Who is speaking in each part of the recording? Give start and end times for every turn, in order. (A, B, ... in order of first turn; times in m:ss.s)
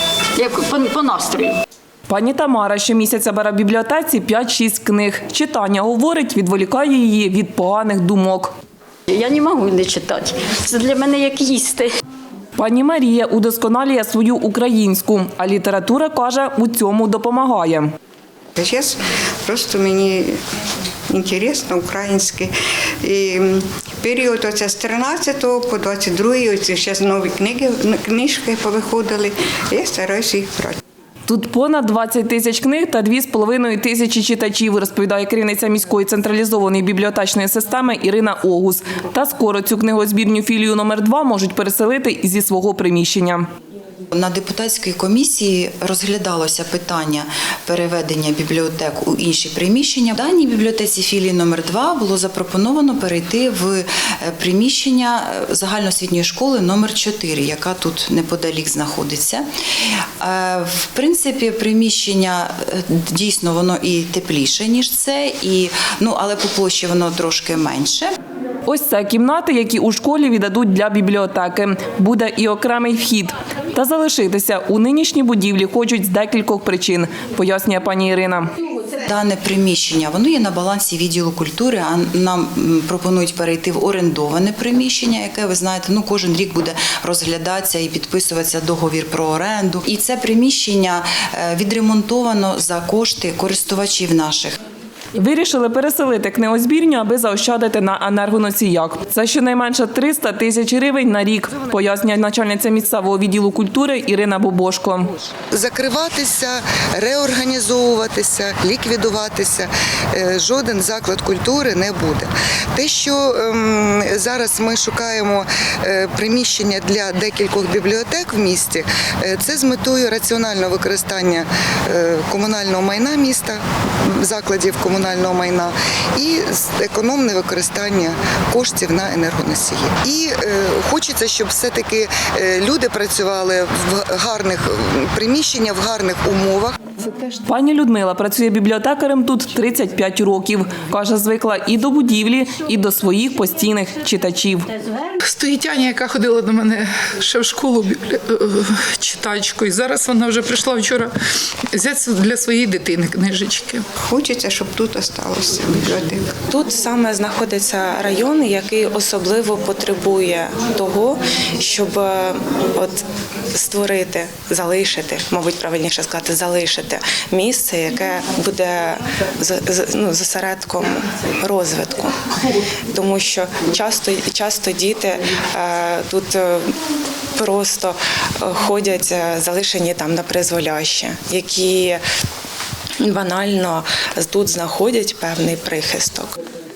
0:00.4-0:01.6 A
0:02.1-0:08.5 B
0:09.1-0:11.9 A
0:12.6-0:17.9 B
0:18.6-0:20.4 C
0:21.1-0:22.5 C
0:23.0-0:30.8 C
0:31.3-0:43.5 B
0:44.1-1:08.1 D
1:08.7-1:18.5 B
1:18.8-1:34.6 D
1:35.2-1:45.1 B
1:45.5-2:16.8 E
2:17.4-2:24.7 B
2:25.2-2:31.1 F
2:31.7-2:33.9 F
2:34.0-2:36.2 C
2:36.5-2:52.2 G
2:52.9-2:56.7 G
2:57.4-3:02.0 G
3:03.0-3:06.3 G